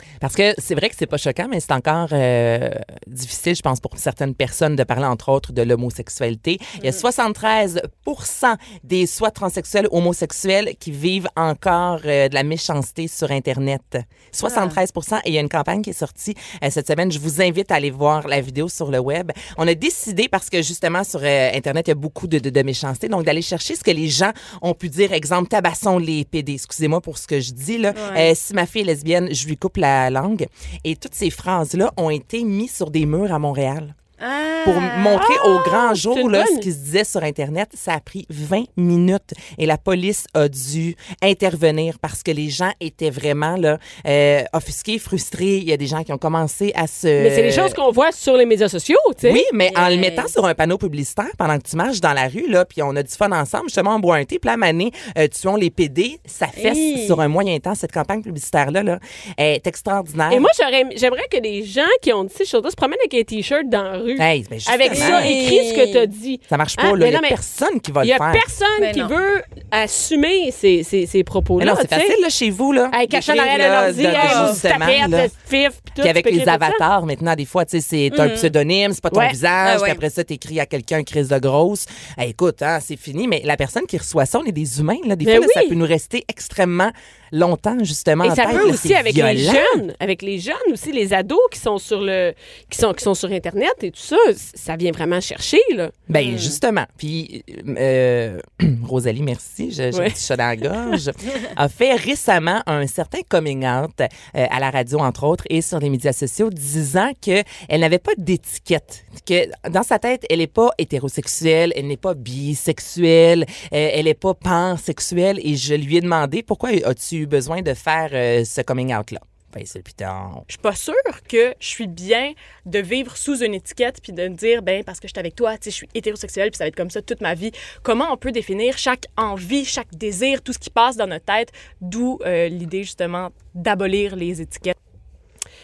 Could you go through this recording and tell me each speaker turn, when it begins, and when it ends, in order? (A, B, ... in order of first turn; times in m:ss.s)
0:00.2-0:33.9 A
0:14.4-0:14.8 B
0:27.9-0:28.3 B
0:34.2-0:35.3 B
0:34.6-0:47.8 A
0:35.1-0:36.6 C
0:47.2-0:49.4 C
0:49.2-1:00.5 A
0:49.6-0:50.3 B
0:56.6-0:57.2 B
1:00.3-1:07.4 C
1:04.2-1:05.4 A
1:04.9-1:06.1 B
1:06.5-1:08.5 A
1:08.0-1:12.2 C
1:08.8-1:09.1 B
1:11.6-1:15.3 A
1:12.9-1:16.8 C
1:14.1-1:14.6 B
1:16.0-1:29.8 A
1:18.1-1:18.5 B
1:19.6-1:20.0 B
1:25.2-1:25.8 C
1:28.2-1:35.9 C
1:28.5-1:28.7 B
1:36.1-2:00.4 A
1:36.1-1:36.6 B
2:00.5-2:14.7 D